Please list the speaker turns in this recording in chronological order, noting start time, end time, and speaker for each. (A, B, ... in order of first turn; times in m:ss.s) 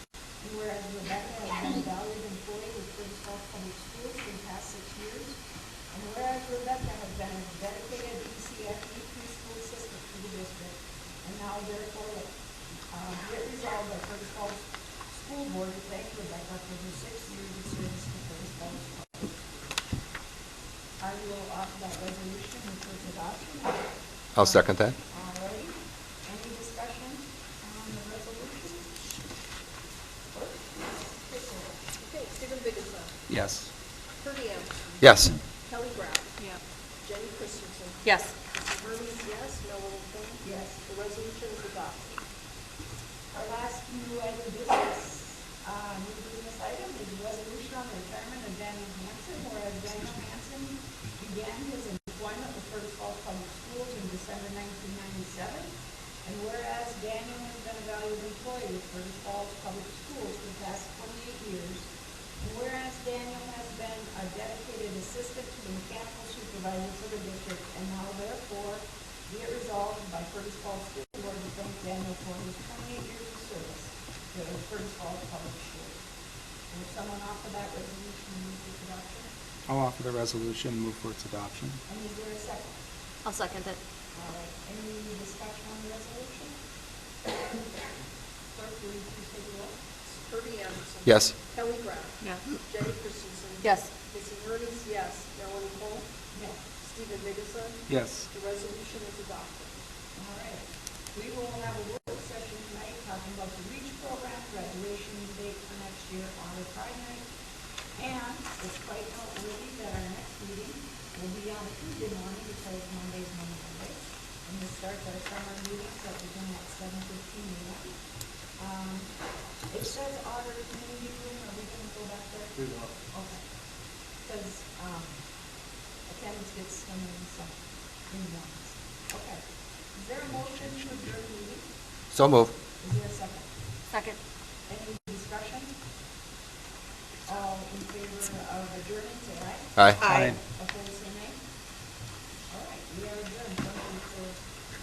0:00.4-0:12.3 A
0:12.9-0:19.4 A
0:21.0-0:28.9 A
0:24.4-0:24.9 B
0:30.3-0:31.7 A
0:32.0-0:33.1 C
0:33.3-0:33.7 D
0:34.2-0:34.8 C
0:35.0-0:35.4 B
0:35.7-0:36.4 C
0:37.0-0:42.1 C
0:38.0-0:38.3 E
0:40.4-0:40.8 A
0:43.3-1:16.0 A
1:16.7-1:19.3 A
1:19.7-1:21.8 D
1:21.9-1:22.8 A
1:23.2-1:23.8 E
1:24.1-1:26.6 A
1:28.5-1:29.8 A
1:30.1-1:36.1 C
1:31.1-1:31.3 B
1:32.2-1:32.6 E
1:33.6-1:33.9 E
1:36.3-1:36.6 A
1:36.8-1:39.8 C
1:37.9-1:38.3 D
1:40.2-1:47.3 A
1:48.0-1:57.9 A
1:58.6-1:59.1 A
1:59.7-2:02.6 A
2:03.1-2:03.4 A
2:04.2-2:05.2 A
2:06.1-2:07.6 A
2:08.1-2:09.4 A
2:10.0-2:11.7 A
2:12.1-2:12.5 B
2:12.8-2:13.5 A
2:13.9-2:14.2 E
2:14.7-2:15.8 A
2:17.3-2:21.4 A
2:19.8-2:20.0 B
2:20.0-2:20.3 E
2:20.0-2:20.4 D
2:22.5-2:24.4 A